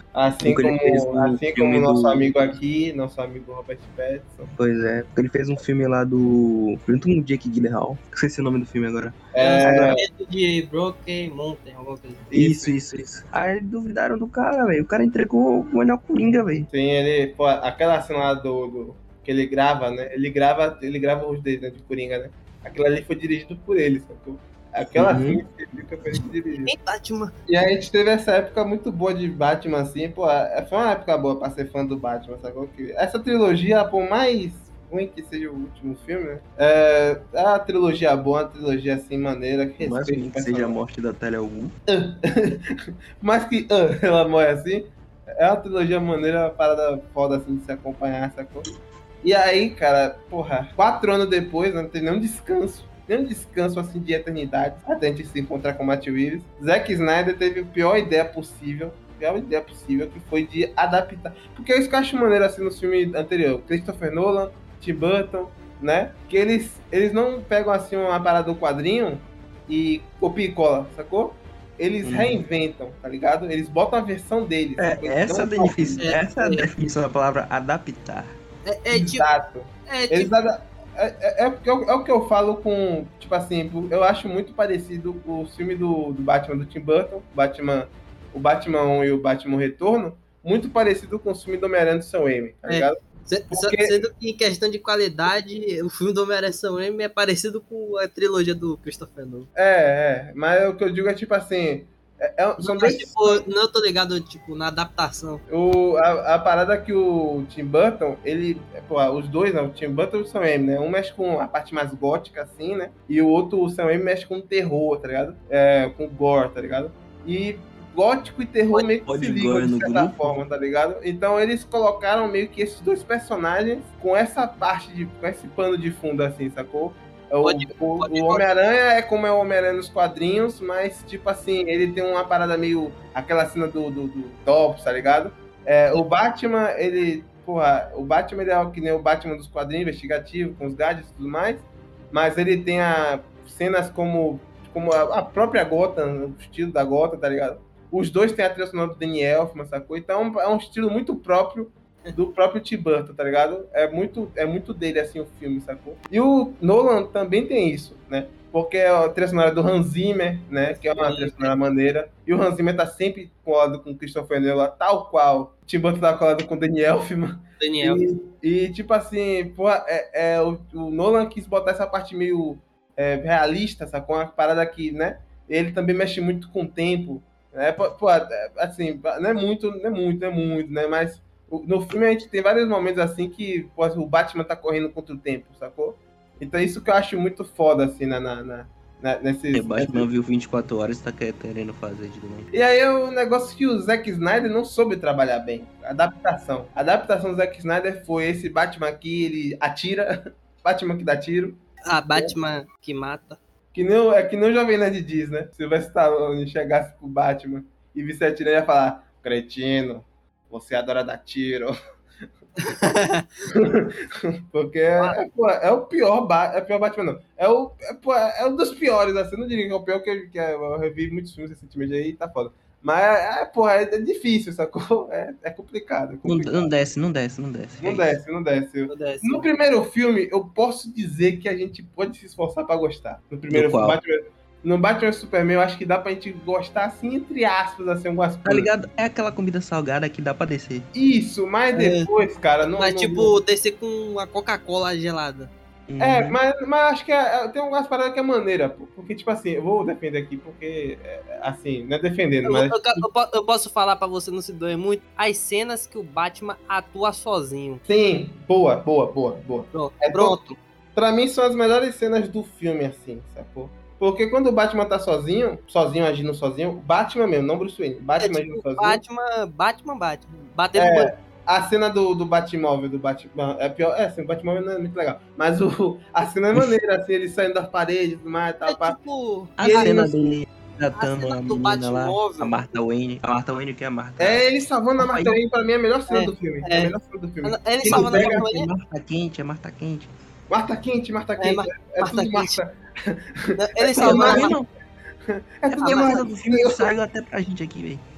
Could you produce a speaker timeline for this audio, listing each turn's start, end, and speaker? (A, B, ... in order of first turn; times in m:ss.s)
0:00.1-0:04.5 A
0:00.4-0:02.6 B
0:04.5-0:09.7 B
0:09.3-0:10.0 A
0:09.4-0:12.2 C
0:12.3-0:12.7 A
0:12.3-0:16.7 B
0:16.7-0:26.7 A
0:24.9-0:25.4 B
0:26.6-0:27.3 C
0:27.5-0:40.8 A
0:39.8-0:41.8 B
0:41.9-0:48.7 A
0:49.2-1:16.0 A
1:12.0-1:12.4 B
1:14.8-1:18.4 B
1:16.0-1:16.7 C
1:18.6-1:19.3 C
1:18.9-1:34.0 A
1:19.9-1:20.3 C
1:32.7-1:39.5 C
1:39.6-1:43.4 A
1:42.6-1:45.4 C
1:45.5-3:10.0 A
1:59.0-2:00.4 B
2:07.4-2:08.5 C
2:40.7-2:41.6 C
2:47.6-2:48.0 C
3:09.5-3:12.5 B
3:12.5-3:21.6 A
3:21.8-3:23.4 C
3:23.7-3:31.7 A
3:32.6-3:33.3 C
3:33.5-3:46.7 A
3:46.2-3:48.2 B
3:47.8-3:58.7 A
3:48.9-3:49.5 C
3:53.5-3:54.0 B
3:58.4-4:00.9 B
4:00.9-4:03.3 A
4:01.7-4:02.1 C
4:02.8-4:05.5 C
4:05.9-4:06.4 B
4:06.0-4:13.0 A
4:12.4-4:17.8 C
4:17.8-4:20.4 A
4:19.7-4:20.6 C
4:20.9-4:29.0 A
4:28.2-4:31.1 C
4:30.7-4:39.0 A
4:38.6-4:40.0 C
4:39.6-4:45.4 B
4:39.6-4:40.1 A
4:40.9-4:42.6 C
4:44.2-4:48.4 A
4:46.1-4:48.7 C
4:47.9-4:50.2 B
4:50.5-4:54.6 A
4:51.4-4:52.6 C
4:53.6-4:54.5 C
4:54.0-4:54.7 B
4:55.3-4:56.8 A
4:55.7-4:58.0 B
4:55.8-4:56.2 C